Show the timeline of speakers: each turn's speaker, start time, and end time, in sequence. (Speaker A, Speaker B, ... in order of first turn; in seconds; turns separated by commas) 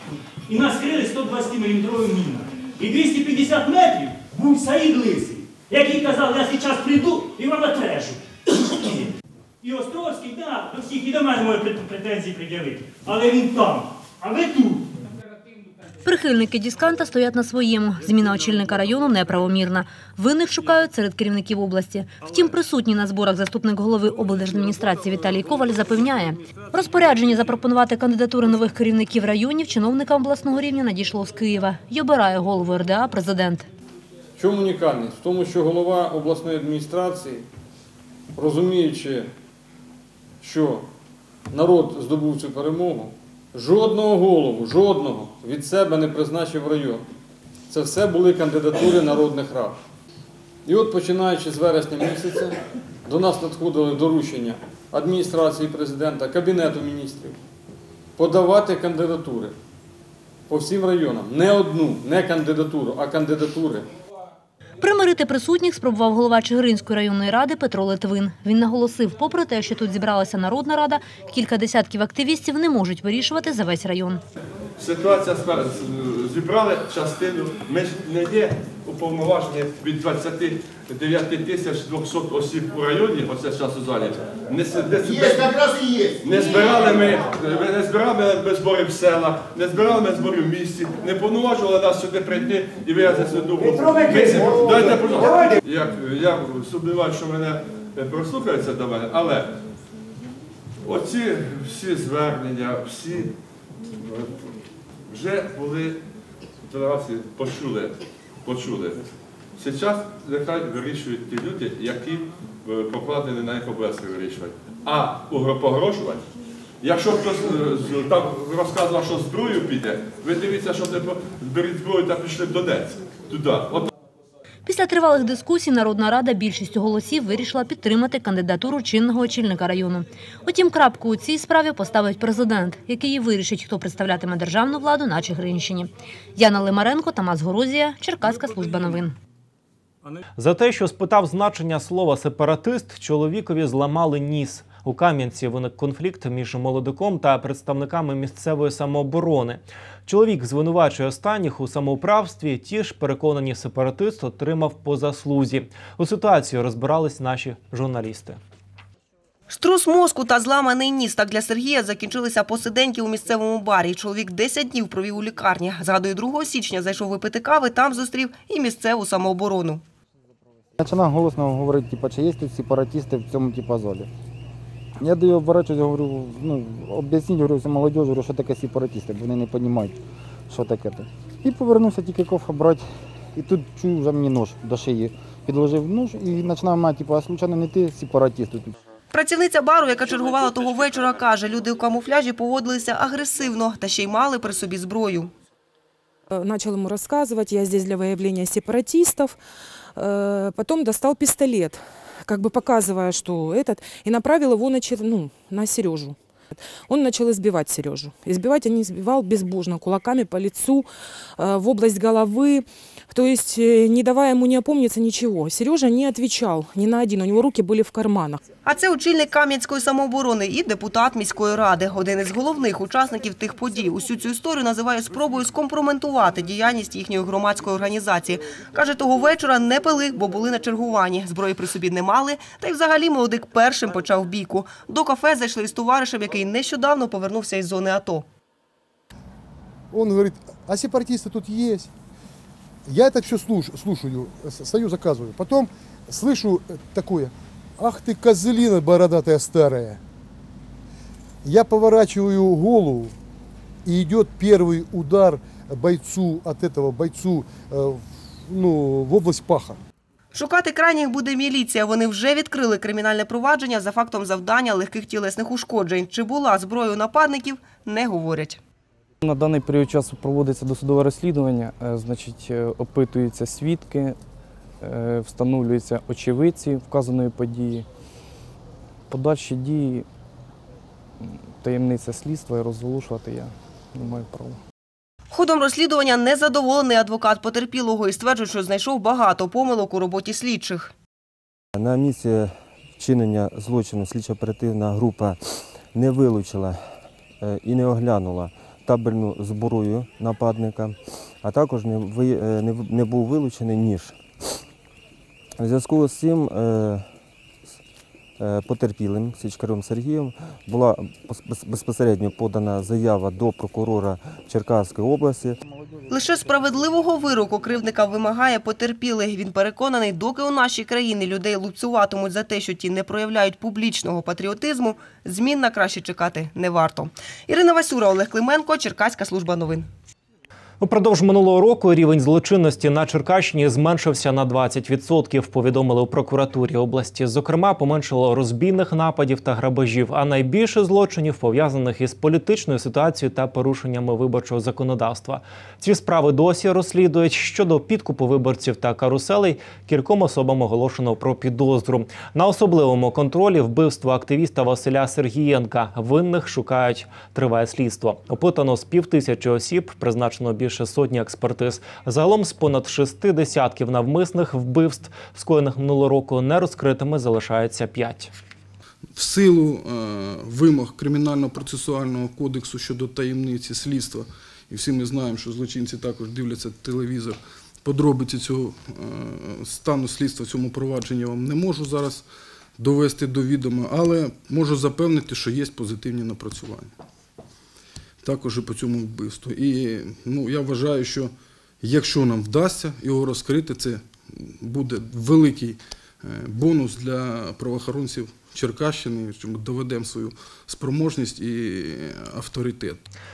Speaker A: 0.5-14.8, Speaker B: 16.0-33.7, Speaker C: 34.4-37.5, Speaker C: 38.3-39.3, Speaker C: 40.4-40.8, Speaker C: 41.5-47.0, Speaker C: 47.7-49.8, Speaker C: 50.6-57.4, Speaker C: 58.2-59.5, Speaker C: 60.5-63.9, Speaker B: 64.8-74.2, Speaker D: 74.8-99.6, Speaker D: 100.8-103.3, Speaker D: 103.9-104.4, Speaker D: 105.1-106.0, Speaker D: 106.6-109.0, Speaker D: 109.6-116.2, Speaker D: 116.8-123.9, Speaker B: 124.7-139.2, Speaker E: 140.4-158.4, Speaker F: 159.5-169.8, Speaker G: 170.8-174.1, Speaker G: 175.0-180.0, Speaker G: 180.5-188.8, Speaker F: 189.1-195.3, Speaker H: 196.3-199.4, Speaker H: 199.9-218.4, Speaker F: 218.6-238.2, Speaker I: 239.9-241.9, Speaker I: 242.8-250.0, Speaker I: 251.4-253.1, Speaker I: 253.8-259.8, Speaker F: 260.3-268.6, Speaker J: 269.2-274.2, Speaker J: 274.8-277.9, Speaker J: 279.1-280.1, Speaker J: 281.2-284.6, Speaker F: 285.3-290.9, Speaker K: 291.8-296.8, Speaker K: 297.4-304.2, Speaker K: 305.6-307.1, Speaker K: 308.4-315.6, Speaker F: 316.1-329.9, Speaker E: 330.8-368.3, Speaker L: 369.1-382.2, Speaker L: 382.8-386.9, Speaker L: 388.2-403.0